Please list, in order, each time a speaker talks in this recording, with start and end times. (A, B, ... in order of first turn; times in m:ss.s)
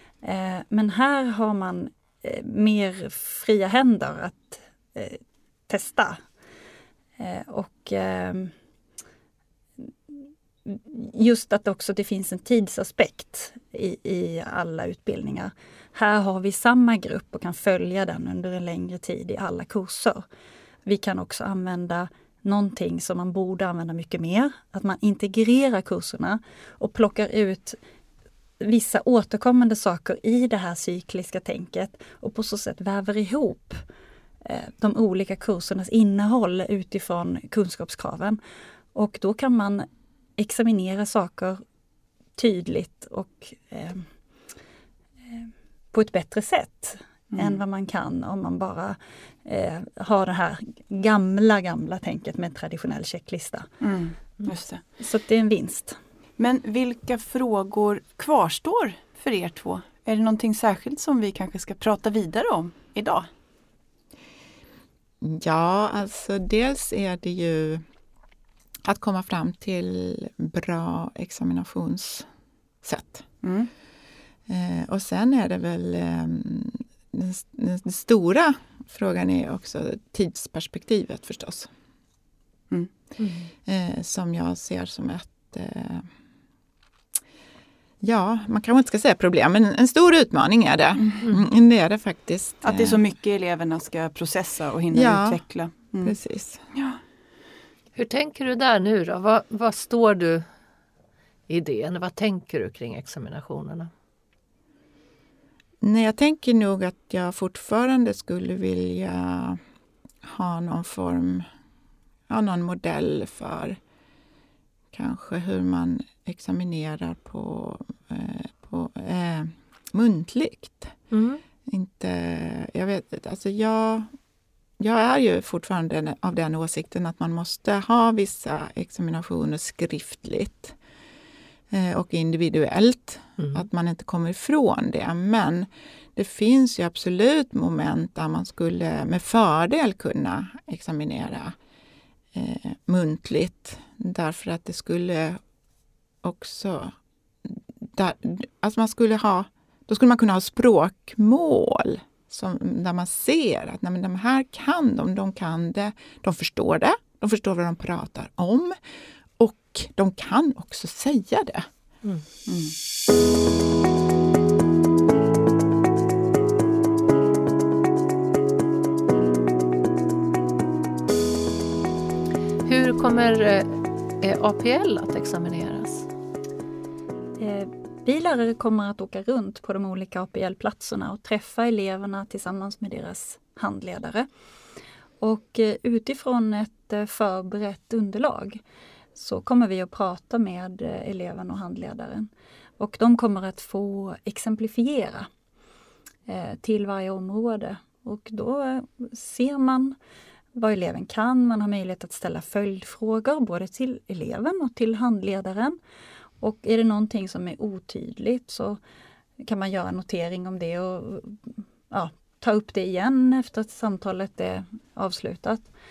0:00.2-0:06.2 A
0:07.2-0:08.5 A
0:10.6-0:20.2 A
0:20.8-0:27.8 A
0:28.6-0:33.8 A
0:34.4-0:38.4 A
0:39.0-0:41.6 A
0:42.4-0:44.1 A
0:45.3-0:53.7 A
0:47.3-0:47.6 B
0:53.8-0:54.8 B
0:55.0-0:56.0 A
0:56.4-1:03.3 B
1:05.2-1:07.8 C
1:08.8-1:12.3 C
1:12.8-1:13.3 C
1:13.4-1:13.7 B
1:14.5-1:21.7 C
1:23.2-1:23.5 D
1:23.7-1:26.1 C
1:28.0-1:33.0 C
1:32.6-1:36.2 B
1:34.9-1:35.4 C
1:36.0-1:36.6 C
1:36.7-1:37.0 B
1:38.0-1:40.4 D
1:41.5-1:43.9 D
1:45.8-1:49.6 C
1:50.2-1:51.5 C
1:52.3-1:53.8 C
1:54.9-2:01.0 C
2:01.1-2:01.4 D
2:01.7-2:04.1 C
2:04.8-2:10.8 C
2:11.7-2:21.6 C
2:22.3-2:25.4 C
2:26.2-2:26.9 C
2:27.5-2:38.8 C
2:39.4-2:41.7 C
2:42.5-2:42.8 B
2:52.7-2:56.1 D
2:57.4-3:04.3 A
3:05.2-3:08.6 A
3:09.2-3:15.3 A
3:16.3-3:20.0 A
3:20.6-3:25.8 A
3:26.4-3:28.8 A
3:29.4-3:35.7 A